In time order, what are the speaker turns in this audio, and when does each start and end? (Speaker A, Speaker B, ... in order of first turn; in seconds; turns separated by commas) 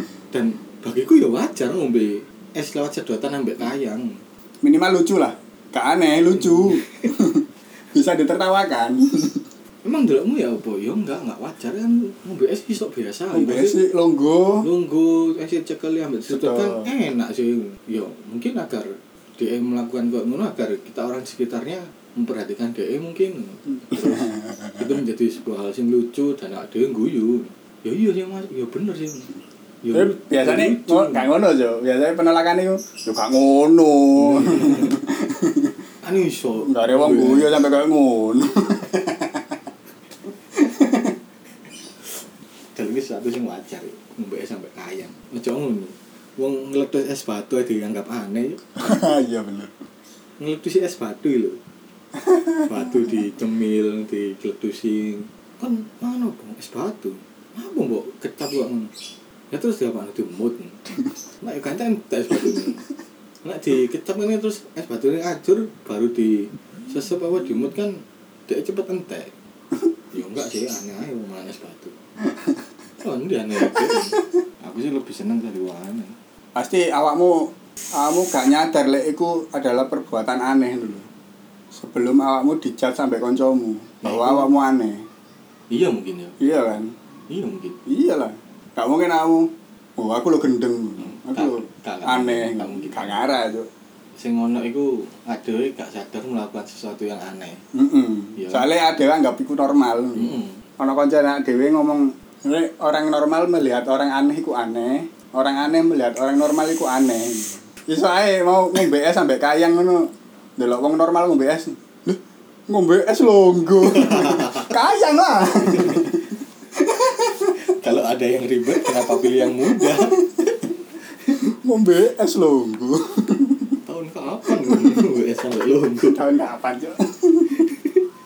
Speaker A: 0.3-4.2, Speaker B: 4.6-9.4, Speaker A: 6.4-7.0, Speaker A: 9.8-13.8, Speaker B: 13.3-14.7, Speaker A: 14.6-29.3, Speaker B: 16.2-16.9, Speaker B: 23.9-25.0, Speaker A: 29.8-31.3, Speaker B: 29.9-35.7, Speaker A: 34.2-35.0, Speaker A: 36.0-37.7, Speaker B: 36.6-39.5, Speaker B: 40.5-41.1, Speaker A: 42.7-48.7, Speaker B: 48.8-49.8, Speaker A: 50.4-51.6, Speaker B: 52.2-53.2, Speaker A: 52.7-58.9, Speaker A: 59.5-62.9, Speaker A: 63.4-69.3, Speaker A: 70.1-71.9, Speaker A: 73.0-76.1, Speaker B: 73.6-74.0, Speaker B: 76.5-77.5, Speaker B: 78.0-81.1, Speaker B: 81.7-85.0, Speaker A: 84.0-84.5, Speaker A: 85.7-86.3, Speaker B: 86.4-86.9, Speaker A: 87.3-87.8, Speaker B: 87.8-93.7, Speaker A: 91.0-93.4, Speaker A: 94.2-97.6, Speaker B: 97.7-110.0, Speaker A: 98.4-98.7, Speaker A: 100.2-100.5, Speaker B: 110.6-117.5, Speaker A: 113.9-114.7, Speaker A: 115.7-116.1, Speaker A: 117.7-120.7, Speaker B: 119.7-120.1, Speaker B: 121.6-123.8, Speaker A: 123.8-126.2, Speaker B: 124.7-125.0, Speaker B: 126.0-127.7, Speaker A: 127.5-128.0